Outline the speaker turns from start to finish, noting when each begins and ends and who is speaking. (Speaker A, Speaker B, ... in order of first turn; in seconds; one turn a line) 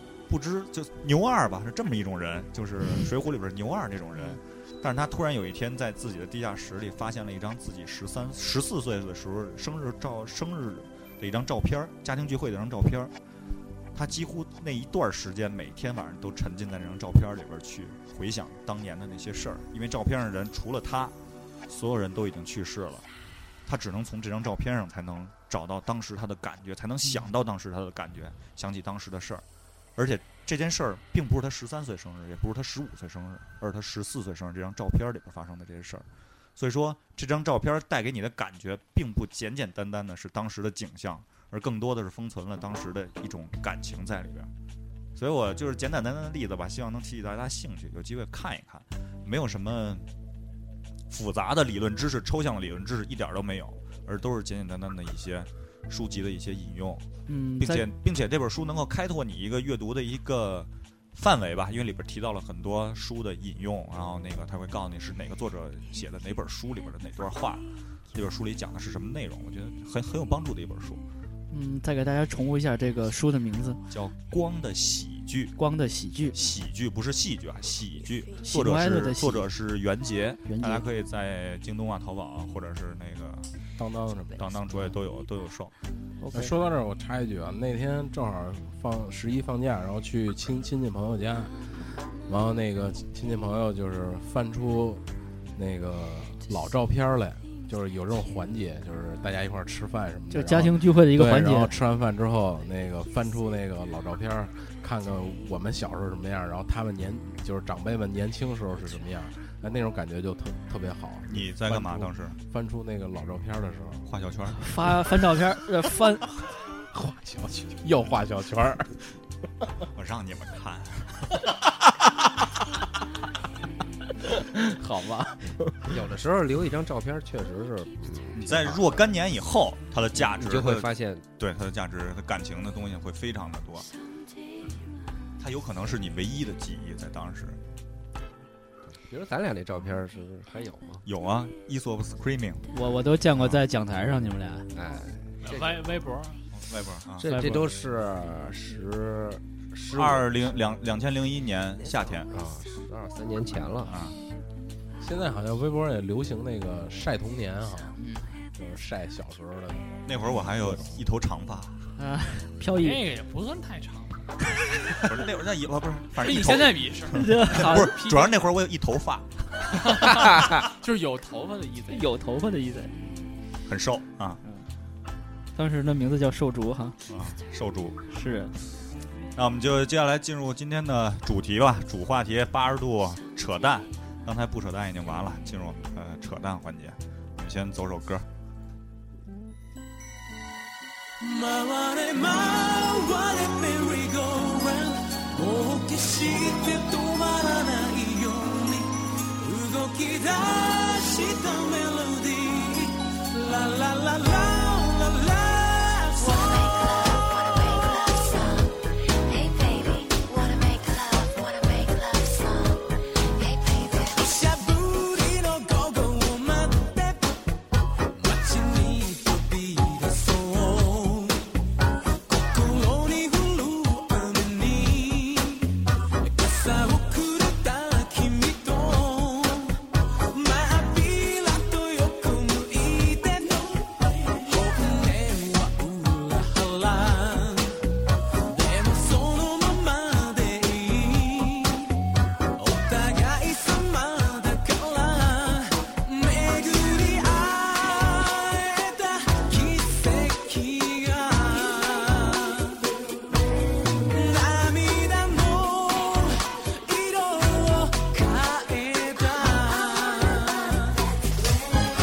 Speaker A: 0.3-13.1
Speaker A: 13.9-21.1
Speaker A: 21.7-23.1
Speaker A: 23.7-29.4
Speaker A: 30.0-36.1
Speaker A: 36.6-44.5
Speaker A: 45.1-50.1
Speaker A: 51.1-71.0
Speaker B: 57.3-57.9
Speaker B: 71.5-73.8
Speaker A: 73.9-75.6
Speaker B: 75.6-76.4
Speaker A: 76.3-83.5
Speaker B: 78.4-79.5
Speaker B: 80.5-80.9
Speaker C: 83.8-85.0
Speaker A: 84.4-85.7
Speaker B: 86.2-86.5
Speaker C: 86.3-95.0
Speaker C: 95.5-114.1
Speaker B: 100.3-101.8
Speaker A: 111.3-112.4
Speaker A: 114.1-114.6
Speaker B: 114.6-116.4
Speaker C: 115.2-115.4
Speaker C: 116.8-119.0
Speaker A: 119.9-121.5
Speaker C: 124.4-126.0
Speaker D: 125.9-129.1
Speaker A: 128.3-133.9
Speaker D: 130.2-131.3
Speaker A: 135.4-137.6
Speaker D: 139.0-141.0
Speaker A: 141.1-142.7
Speaker B: 142.7-144.7
Speaker A: 143.3-143.6
Speaker D: 144.7-145.8
Speaker E: 145.4-146.4
Speaker A: 146.5-147.2
Speaker D: 147.2-150.5
Speaker B: 147.2-147.7
Speaker A: 149.9-152.3
Speaker D: 152.3-153.9
Speaker A: 153.9-154.2
Speaker C: 155.0-158.0
Speaker B: 158.0-158.3
Speaker C: 158.6-161.0
Speaker A: 160.1-161.8
Speaker B: 162.0-163.0
Speaker E: 162.8-164.3
Speaker A: 165.0-169.8
Speaker E: 166.2-168.4
Speaker B: 167.1-168.0
Speaker E: 169.8-172.1
Speaker B: 171.9-173.0
Speaker A: 173.7-174.4
Speaker B: 175.6-177.0
Speaker A: 177.1-178.0
Speaker B: 178.1-178.5
Speaker A: 179.4-188.3
Speaker F: 191.2-206.8
Speaker G: 206.2-214.3
Speaker F: 214.2-217.2
Speaker F: 218.1-221.4
Speaker F: 222.3-237.8
Speaker F: 238.5-241.9
Speaker F: 242.6-252.8
Speaker F: 254.1-261.0